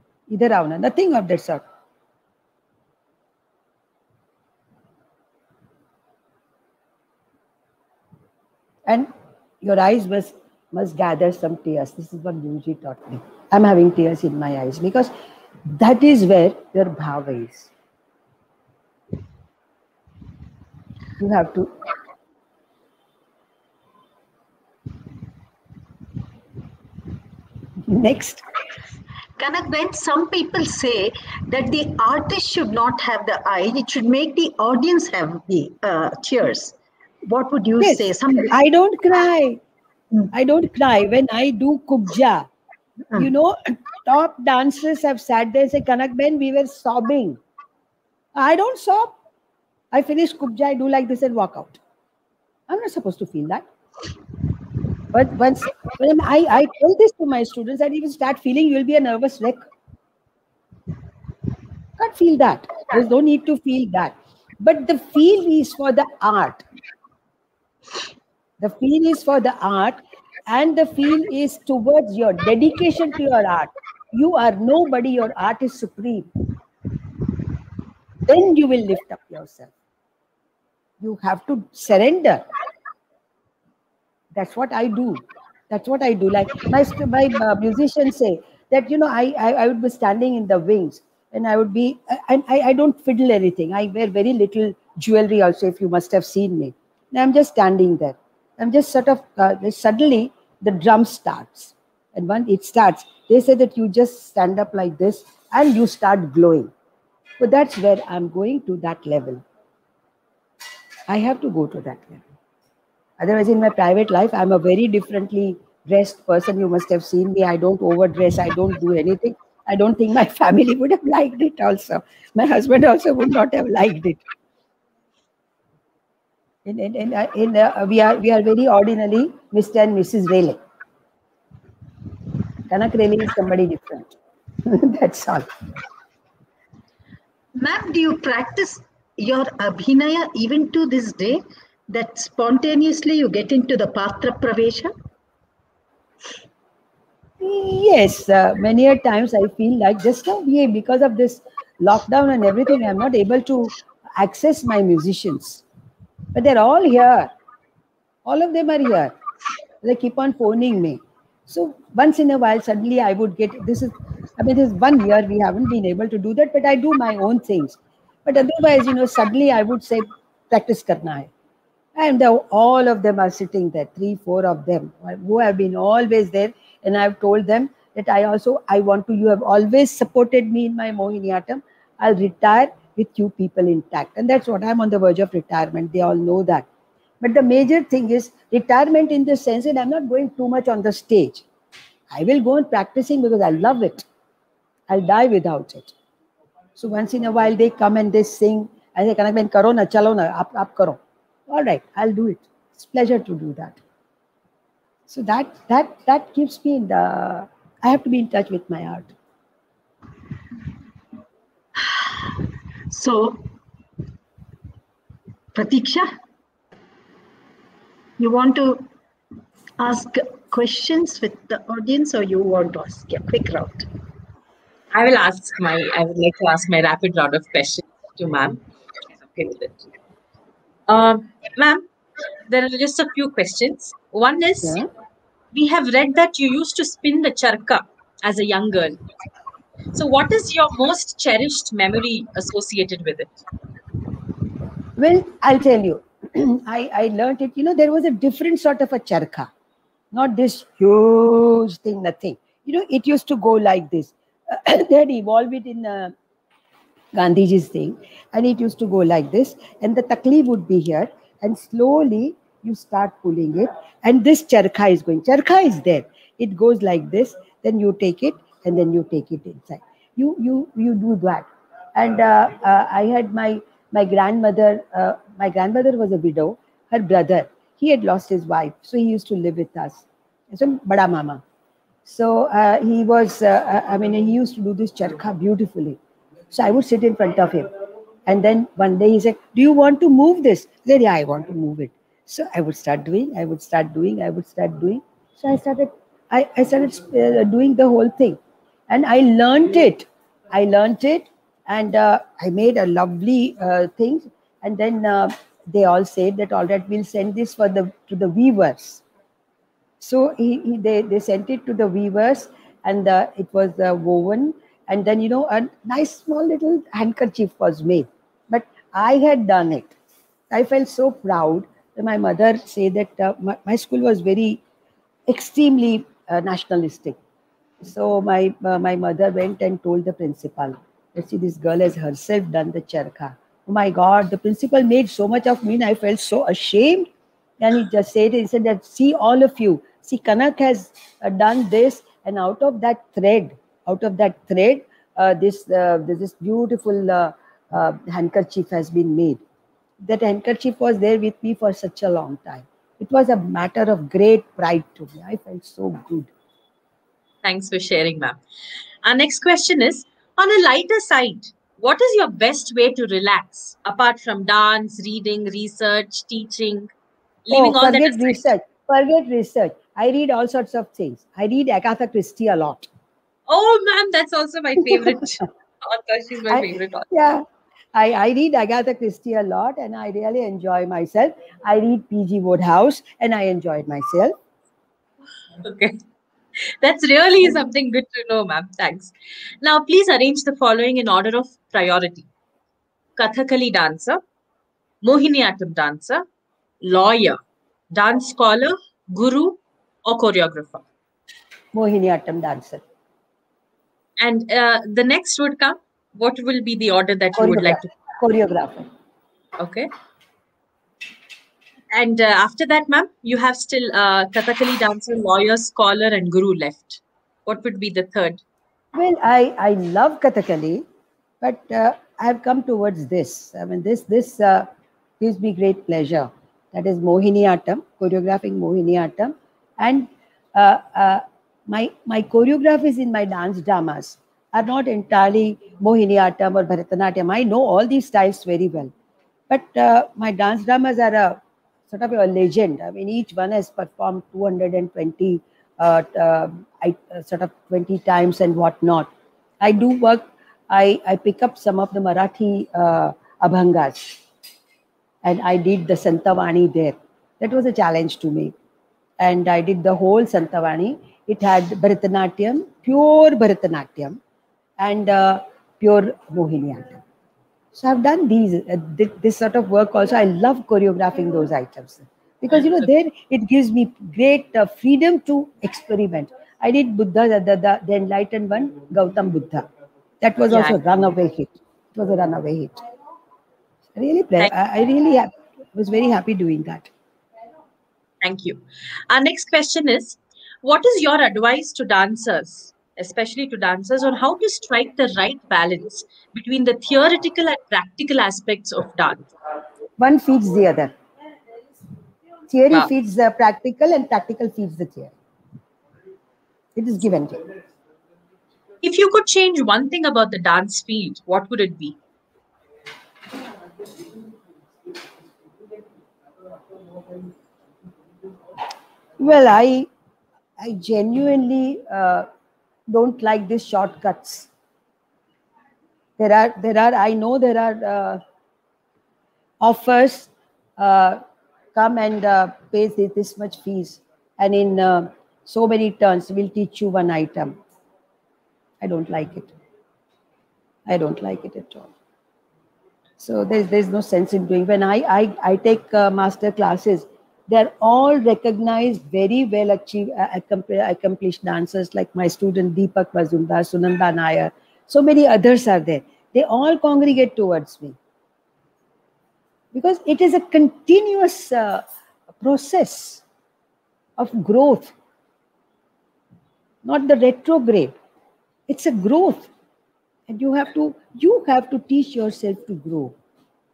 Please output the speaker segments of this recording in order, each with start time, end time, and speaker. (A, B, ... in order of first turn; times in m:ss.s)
0:00.3-0:01.6 A
0:09.6-0:15.1 A
0:15.7-0:17.7 A
0:21.2-0:21.7 A
0:27.8-0:28.4 A
0:29.4-0:38.5 B
0:37.8-0:39.6 A
0:40.3-0:42.5 A
0:43.2-0:47.4 A
0:48.3-0:49.1 A
0:49.9-0:51.8 A
0:52.7-0:53.6 A
0:55.1-0:59.6 A
1:02.0-1:06.6 A
1:08.6-1:16.3 A
1:18.2-1:19.7 A
1:21.0-1:22.4 A
1:24.3-1:46.7 A
1:47.4-1:49.4 A
1:51.1-1:52.2 A
1:53.2-2:04.2 A
2:06.6-2:10.6 A
2:12.7-2:15.5 A
2:17.6-2:24.9 B
2:27.4-2:35.6 A
2:36.3-2:37.3 A
2:38.2-2:39.1 A
2:39.8-2:51.3 A
2:52.0-3:06.7 A
3:07.2-3:11.4 A
3:12.1-3:14.0 A
3:14.9-3:15.9 A
3:16.8-3:23.8 A
3:25.1-3:29.1 A
3:31.8-3:33.5 B
3:35.5-3:36.1 B
3:38.2-3:38.9 B
3:39.8-3:43.9 B
3:44.9-3:48.6 C
3:49.2-3:49.8 C
3:50.9-3:51.8 C
3:52.5-3:54.8 C
3:55.5-3:59.0 C
3:59.9-4:03.4 C
4:05.0-4:09.5 A
4:10.1-4:16.1 A
4:17.1-4:41.4 A
4:42.0-4:46.0 A
4:46.5-4:47.7 A
4:48.2-5:09.0 A
5:10.0-5:19.9 A
5:20.5-5:24.6 A
5:25.3-5:27.2 A
5:27.8-5:49.4 A
5:50.0-5:56.3 A
5:57.4-5:58.4 C
5:59.0-6:06.9 C
6:07.5-6:08.4 C
6:07.5-6:12.9 A
6:13.5-6:17.0 C
6:16.5-6:24.3 A
6:25.6-6:26.0 C
6:26.6-6:32.3 C
6:33.2-6:34.2 C
6:35.0-6:36.2 C
6:36.8-6:37.4 C
6:37.9-6:40.8 C
6:41.7-6:42.8 A
6:44.2-6:47.9 C
6:47.3-6:48.9 A
6:49.6-6:49.9 C
6:51.9-6:58.4 C
6:58.9-7:00.8 A
7:01.4-7:04.7 A
7:05.2-7:18.9 A
7:19.5-7:29.1 A
7:29.6-7:34.2 A
7:35.2-7:38.5 A
7:39.2-7:44.2 A
7:44.8-7:47.0 A
7:47.7-7:59.6 A
8:00.2-8:02.8 A
8:00.5-8:00.8 C
8:04.0-8:06.9 A
8:08.2-8:19.3 C
8:20.0-8:20.9 A
8:22.5-8:25.1 A
8:26.8-8:27.4 A
8:28.8-8:32.0 C
8:39.2-8:39.9 A
8:40.6-8:42.3 A
8:42.9-8:44.5 A
8:46.2-8:48.2 A
8:49.6-8:51.2 A
8:51.7-8:57.6 A
8:58.8-8:59.5 A
9:00.9-9:01.9 A
9:03.2-9:18.0 A
9:19.7-9:21.8 A
9:22.4-9:23.2 A
9:24.2-9:24.9 A
9:26.8-9:27.9 A
9:28.7-9:29.5 A
9:30.3-9:33.2 A